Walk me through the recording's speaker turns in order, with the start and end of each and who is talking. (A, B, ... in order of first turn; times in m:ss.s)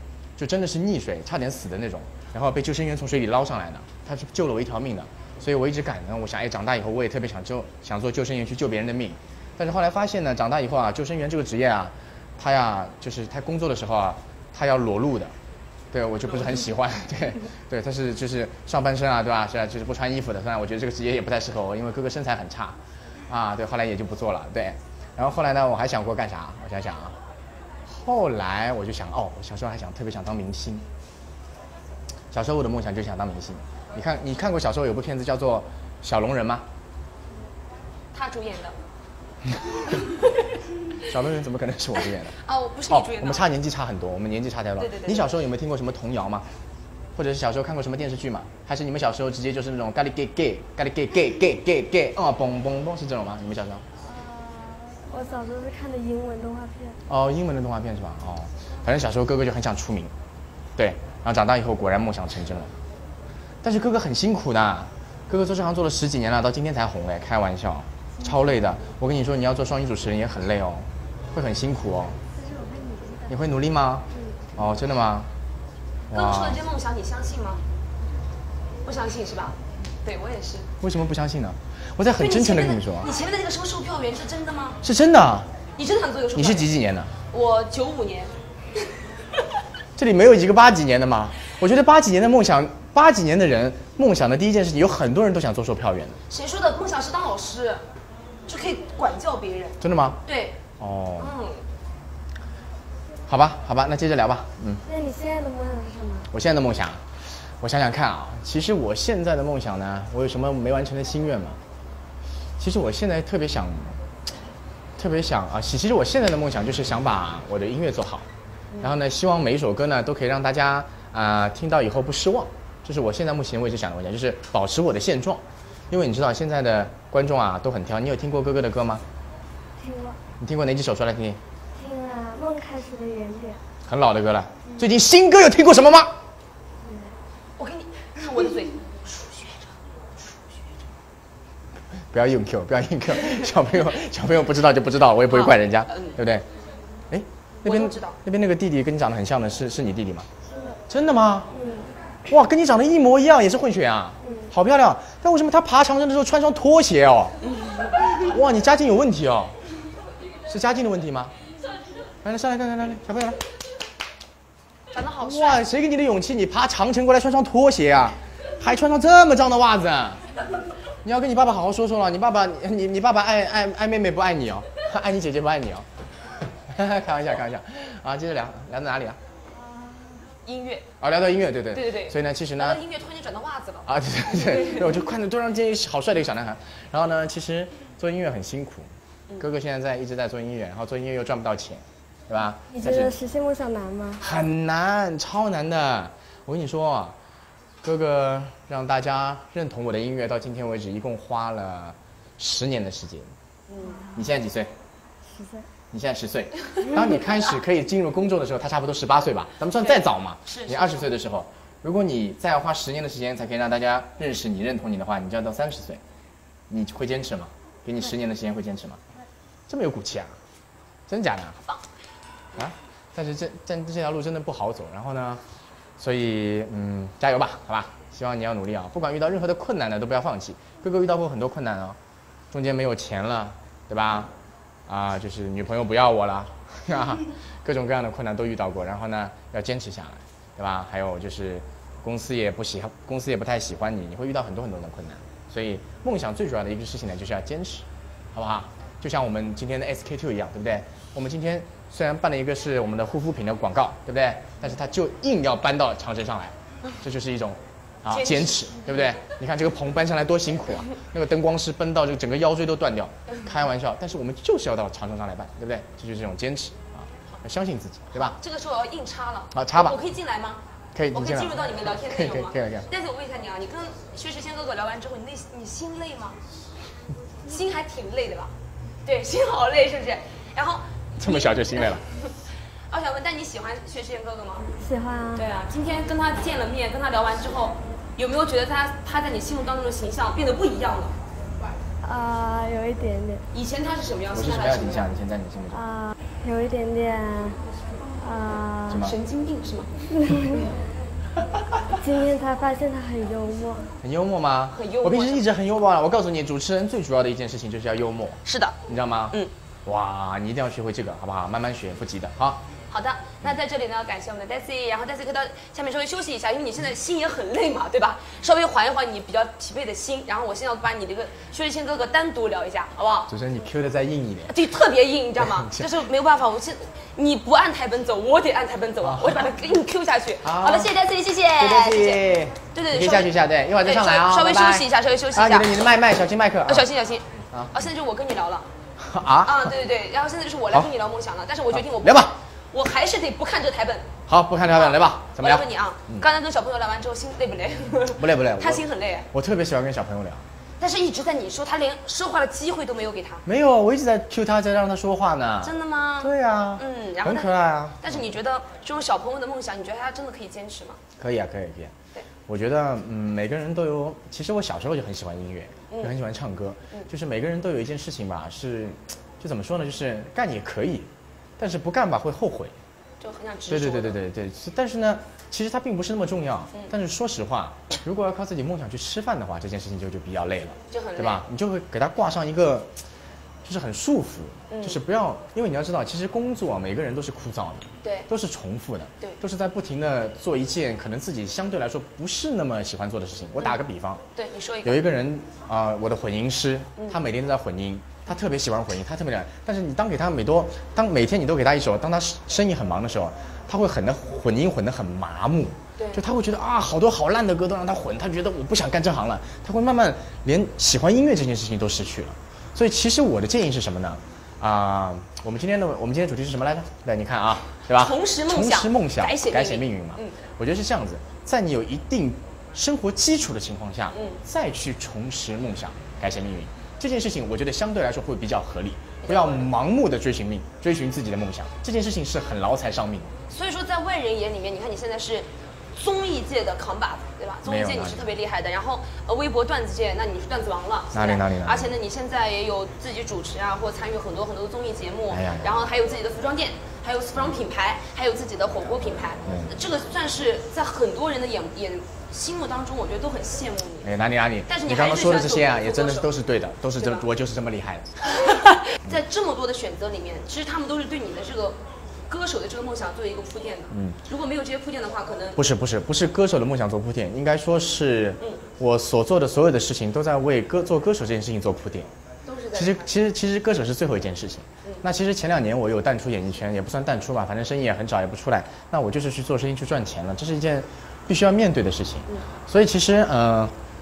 0:00.4-0:15.3 A
0:15.9-0:22.8 A
0:23.3-0:27.2 A
0:27.9-0:30.8 A
0:32.3-0:36.7 A
0:38.1-0:38.8 B
0:39.9-0:40.4 B
0:41.0-0:42.4 A
0:42.3-0:43.5 B
0:42.9-0:46.5 A
0:44.8-0:45.3 B
0:47.2-0:53.8 A
0:54.0-0:57.0 C
0:57.1-1:00.1 A
1:00.8-1:02.7 A
1:03.6-1:12.2 A
1:12.3-1:13.4 C
1:13.3-1:15.3 A
1:14.1-1:14.4 C
1:16.1-1:16.6 A
1:16.1-1:17.6 B
1:18.9-1:20.7 B
1:20.8-1:23.1 A
1:22.2-1:24.8 B
1:24.8-1:25.5 A
1:25.8-1:26.7 B
1:26.4-1:27.1 A
1:27.3-1:28.3 B
1:30.0-1:36.2 A
1:36.3-1:37.8 B
1:38.5-1:40.6 B
1:39.8-1:40.2 A
1:40.8-1:41.4 A
1:41.2-1:41.6 B
1:43.3-1:44.8 A
1:44.9-1:46.3 C
1:46.3-1:47.0 A
1:47.6-1:51.6 A
1:52.6-1:54.0 A
1:55.0-1:58.3 A
1:58.7-1:59.0 B
1:58.8-2:09.0 A
2:09.8-2:10.2 C
2:10.4-2:11.4 A
2:11.8-2:13.6 C
2:13.9-2:16.1 A
2:16.8-2:17.1 C
2:17.6-2:19.7 B
2:22.1-2:26.5 A
2:25.3-2:26.2 B
2:27.1-2:30.3 A
2:27.6-2:28.2 B
2:30.5-2:30.8 C
2:30.9-2:31.5 A
2:31.5-2:31.9 C
2:32.3-2:37.4 A
2:34.2-2:34.5 C
2:37.5-2:38.3 B
2:38.2-2:39.5 A
2:40.5-2:41.3 A
2:42.2-2:43.4 A
2:44.9-2:45.7 B
2:45.2-2:50.2 A
2:51.0-2:55.9 A
2:56.4-2:59.2 A
3:00.5-3:00.9 B
3:01.0-3:02.8 A
3:01.7-3:05.0 B
3:03.9-3:08.9 A
3:09.4-3:13.2 A
3:12.7-3:14.3 C
3:14.2-3:17.2 A
3:17.8-3:23.3 A
3:23.7-3:24.0 B
3:24.1-3:24.7 A
3:25.3-3:25.7 C
3:25.9-3:36.0 A
3:29.8-3:31.1 B
3:36.7-3:39.0 A
3:39.7-3:40.3 A
3:41.1-3:41.6 A
3:42.6-3:45.4 A
3:46.0-3:52.0 A
3:52.5-3:54.3 A
3:54.9-4:28.4 A
4:18.1-4:18.8 B
4:28.1-4:30.6 B
4:29.5-4:30.0 A
4:31.0-4:32.9 A
4:31.1-4:36.4 B
4:37.5-4:38.5 B
4:39.0-4:42.4 B
4:41.2-4:42.0 A
4:42.9-4:44.7 B
4:44.8-4:45.4 C
4:45.4-4:51.2 B
4:52.0-4:53.4 C
4:53.5-4:55.1 B
4:54.3-4:55.8 A
4:55.7-4:57.6 C
4:58.1-4:59.1 C
4:58.9-4:59.2 A
4:59.0-4:59.9 B
5:00.1-5:00.7 C
5:02.0-5:03.9 C
5:04.0-5:12.6 A
5:04.7-5:05.4 B
5:08.5-5:08.8 B
5:12.9-5:23.3 B
5:23.3-5:24.6 A
5:24.5-5:33.3 B
5:25.4-5:25.9 A
5:29.0-5:29.5 A
5:30.4-5:30.9 A
5:31.6-5:36.9 A
5:33.8-5:35.8 B
5:36.7-5:38.7 B
5:37.5-5:37.9 A
5:39.0-5:39.7 A
5:39.4-5:44.1 B
5:41.7-5:42.3 A
5:44.3-5:46.3 A
5:44.7-5:49.3 B
5:48.2-5:50.4 A
5:50.8-5:53.4 B
5:53.5-5:58.4 A
5:55.6-5:57.5 B
5:58.0-6:01.0 B
6:01.2-6:02.0 A
6:02.5-6:12.8 A
6:05.9-6:06.2 B
6:13.2-6:14.2 B
6:13.7-6:22.9 A
6:20.9-6:21.4 B
6:23.6-6:34.2 A
6:24.7-6:25.0 B
6:28.0-6:28.3 B
6:34.4-6:35.0 B
6:34.8-7:13.3 A
6:46.0-6:46.2 B
6:57.9-7:00.4 B
7:04.1-7:04.4 B
7:09.2-7:09.7 B
7:13.5-7:34.1 B
7:17.6-7:18.3 A
7:21.1-7:21.9 A
7:25.3-7:25.8 A
7:29.4-7:29.8 A
7:34.0-7:38.1 A
7:34.7-7:36.3 B
7:37.0-7:37.3 B
7:38.2-7:45.6 B
7:43.9-7:44.2 A
7:45.6-7:52.1 A
7:52.5-7:53.1 B
7:52.7-8:03.7 A